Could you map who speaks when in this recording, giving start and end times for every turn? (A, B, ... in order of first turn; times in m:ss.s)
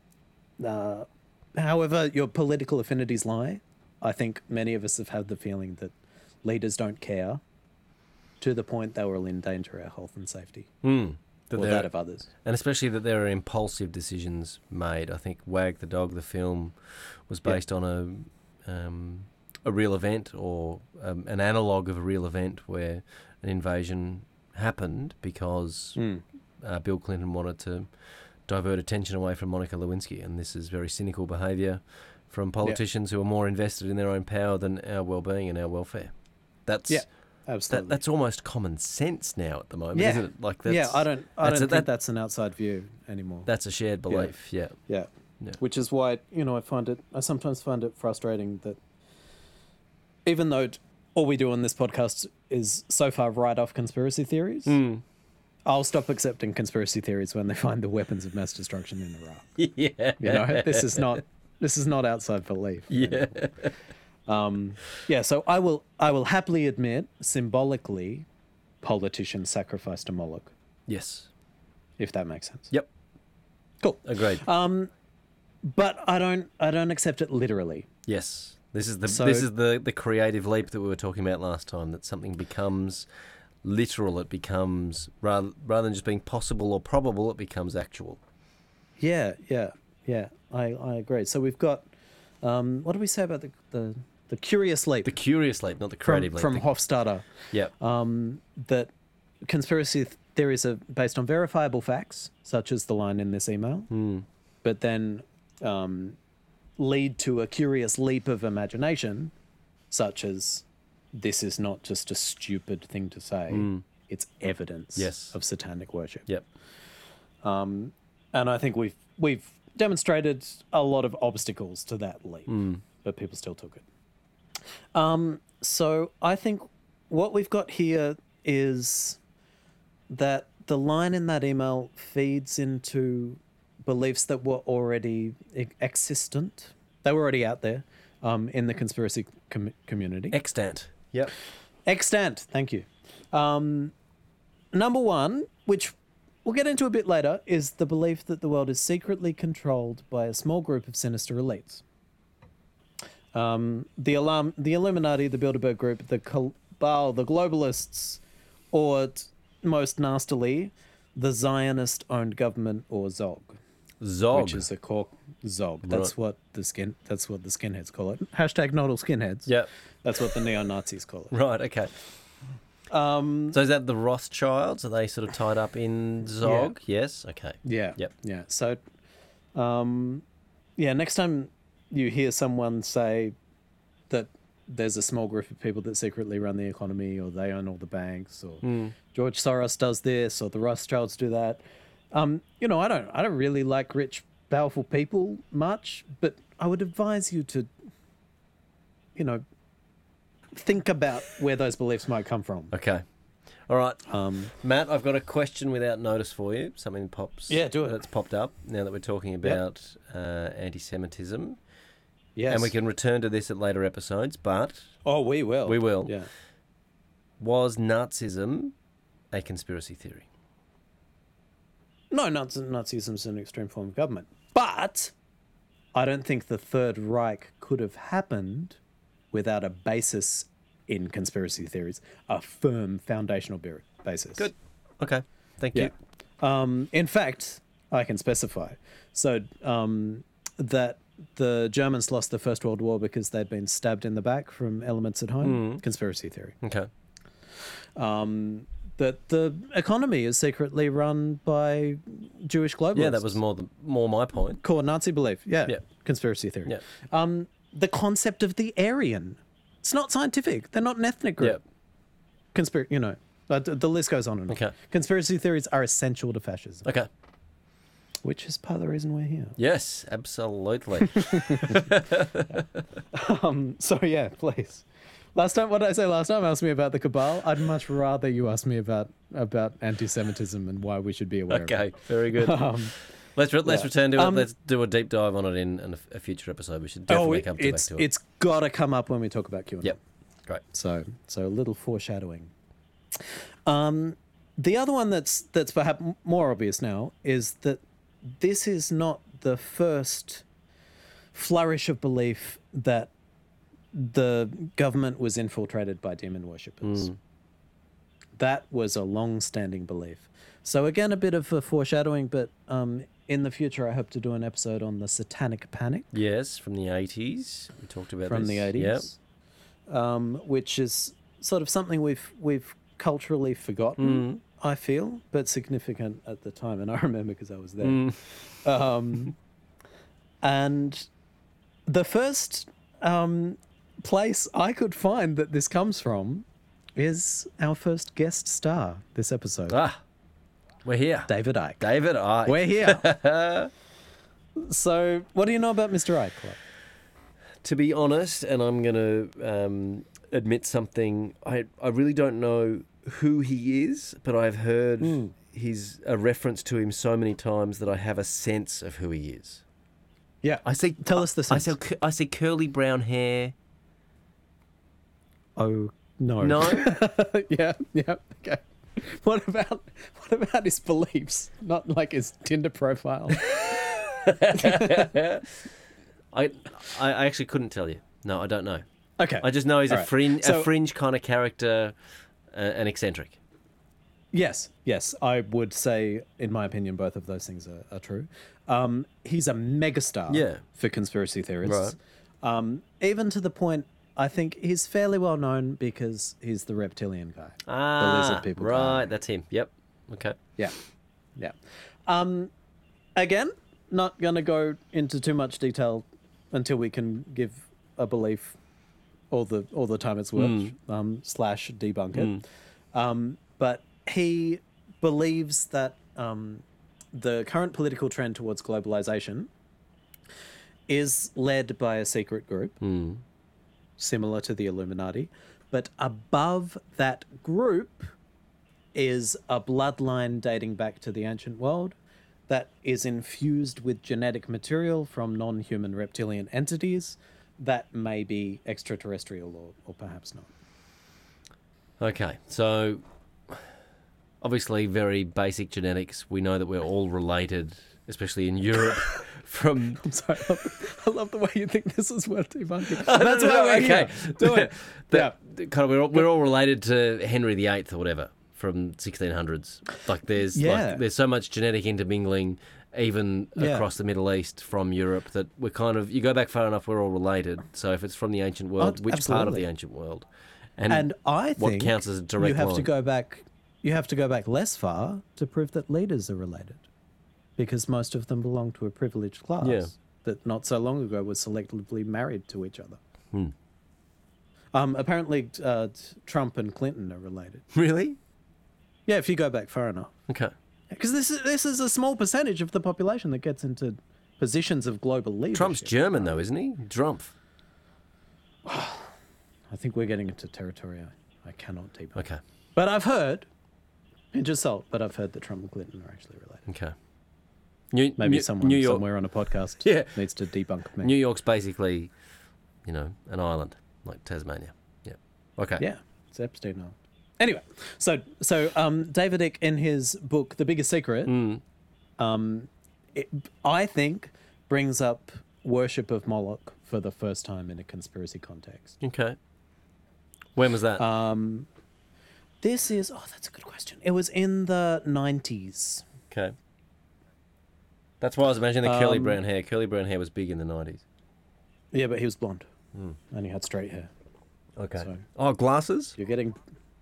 0:00.6-0:07.4 A
0:08.4-0:10.7 A
0:10.8-0:11.9 B
0:11.6-0:12.3 A
0:12.4-0:16.8 B
0:17.3-0:26.0 B
0:26.0-0:26.2 A
0:26.6-0:27.9 B
0:28.5-0:36.1 B
0:36.7-0:37.0 B
0:36.9-0:38.0 A
0:37.7-0:41.9 B
0:40.0-0:43.5 A
0:43.5-0:44.8 B
0:44.9-0:48.8 A
0:50.2-0:54.8 A
0:54.7-0:55.0 B
0:55.7-0:59.5 A
0:59.6-1:01.2 B
1:00.2-1:03.3 A
1:02.9-1:03.7 B
1:04.3-1:08.3 A
1:08.8-1:10.5 A
1:10.9-1:11.3 B
1:12.0-1:12.7 A
1:13.8-1:14.9 A
1:14.0-1:14.4 B
1:15.6-1:17.9 A
1:18.1-1:23.1 B
1:19.1-1:19.5 A
1:23.6-1:28.2 B
1:29.0-1:31.9 A
1:32.4-1:35.1 A
1:35.0-1:36.6 B
1:36.0-1:38.9 A
1:39.4-1:43.9 A
1:43.9-1:44.3 B
1:44.6-1:46.2 A
1:46.8-1:49.3 A
1:49.9-1:56.3 A
1:53.5-1:53.8 B
1:55.0-1:55.4 B
1:57.4-2:03.8 A
2:02.5-2:02.8 B
2:04.9-2:09.2 A
2:10.1-2:20.4 A
2:20.3-2:21.3 B
2:21.9-2:23.9 A
2:24.7-2:31.8 A
2:33.3-2:38.2 A
2:38.7-2:43.6 A
2:44.0-2:44.7 B
2:44.3-2:49.5 A
2:45.9-2:46.1 B
2:50.0-2:51.3 A
2:51.3-2:51.9 B
2:52.9-2:53.6 A
2:53.5-2:58.1 B
2:56.4-2:56.7 A
2:57.6-2:58.8 A
2:59.6-3:00.2 A
3:00.8-3:03.4 A
3:04.1-3:11.6 A
3:08.6-3:09.0 B
3:12.1-3:17.7 A
3:19.2-3:19.4 A
3:20.5-3:22.7 A
3:22.7-3:23.0 B
3:23.7-3:24.0 B
3:24.1-3:24.5 A
3:24.5-3:31.6 B
3:27.5-3:28.0 A
3:32.4-3:32.7 A
3:32.5-3:34.9 B
3:35.0-3:36.3 A
3:35.7-3:36.1 B
3:37.4-3:38.8 B
3:39.3-3:40.3 B
3:42.1-3:45.1 A
3:45.9-3:48.8 A
3:49.3-3:54.5 A
3:54.4-3:55.9 B
3:55.7-4:06.6 A
4:05.4-4:05.8 B
4:06.6-4:06.9 B
4:08.0-4:13.4 A
4:13.0-4:14.6 B
4:14.6-4:21.6 A
4:22.5-4:26.9 A
4:24.5-4:24.7 B
4:28.2-4:29.6 A
4:29.6-4:32.8 B
4:31.0-4:31.9 A
4:33.1-4:41.8 A
4:41.5-4:42.8 B
4:42.3-4:42.9 A
4:43.4-4:48.1 B
4:43.6-4:44.5 A
4:47.1-4:50.0 A
4:50.7-4:52.5 A
4:53.2-5:00.4 A
5:01.3-5:03.1 A
5:03.9-5:07.1 A
5:06.8-5:07.2 B
5:08.4-5:16.1 A
5:16.1-5:19.1 B
5:18.2-5:19.2 A
5:19.9-5:28.1 A
5:24.0-5:24.4 B
5:27.8-5:28.2 B
5:28.6-5:29.3 A
5:30.4-5:31.1 A
5:31.9-5:39.8 A
5:39.7-5:40.0 B
5:40.8-5:43.7 B
5:41.3-5:41.8 A
5:42.5-5:43.1 A
5:44.6-5:46.6 A
5:47.6-5:59.6 B
5:55.0-5:55.3 A
6:00.4-6:01.7 A
6:00.6-6:03.5 B
6:05.6-6:13.5 A
6:06.4-6:06.9 B
6:13.4-6:15.6 B
6:14.5-6:15.1 A
6:16.3-6:18.8 B
6:19.2-6:20.7 A
6:19.4-6:21.9 B
6:22.5-6:23.4 B
6:24.3-6:39.1 A
6:30.3-6:30.6 B
6:31.7-6:32.0 B
6:37.7-6:40.4 B
6:42.1-6:42.5 A
6:43.2-6:48.6 A
6:49.3-6:59.5 A
6:50.4-6:50.7 B
6:52.2-6:52.4 B
7:00.9-7:02.8 A
7:02.8-7:03.2 B
7:04.0-7:08.1 A
7:09.0-7:12.0 A
7:12.5-7:20.5 A
7:22.0-7:23.6 B
7:24.4-7:30.0 B
7:30.0-7:35.3 A
7:32.9-7:50.3 B
7:40.5-7:41.0 A
7:43.6-7:43.9 A
7:48.8-7:49.7 A
7:50.8-7:52.9 B
7:50.9-7:56.8 A
7:57.6-8:03.0 A
7:59.6-7:59.9 B
8:04.7-8:07.6 A
8:07.7-8:08.2 B
8:09.1-8:10.1 A
8:10.3-8:10.5 B
8:10.9-8:16.3 A
8:15.5-8:17.3 B
8:18.6-8:19.1 A
8:19.7-8:23.5 A
8:22.2-8:22.4 B
8:24.3-8:26.7 A
8:26.7-8:26.9 B
8:27.9-8:29.0 B
8:28.2-8:31.1 A
8:29.8-8:30.2 B
8:31.0-8:32.1 B
8:32.9-8:35.8 B
8:35.8-8:41.3 A
8:41.3-8:41.6 B
8:42.2-8:49.0 A
8:49.0-8:49.4 B
8:50.6-8:51.0 B
8:51.0-8:51.7 A
8:52.6-8:56.1 A
8:58.2-9:01.0 B
8:58.8-8:59.4 A
9:01.9-9:02.7 A
9:03.3-9:04.1 A
9:04.8-9:06.2 B
9:06.2-9:06.6 A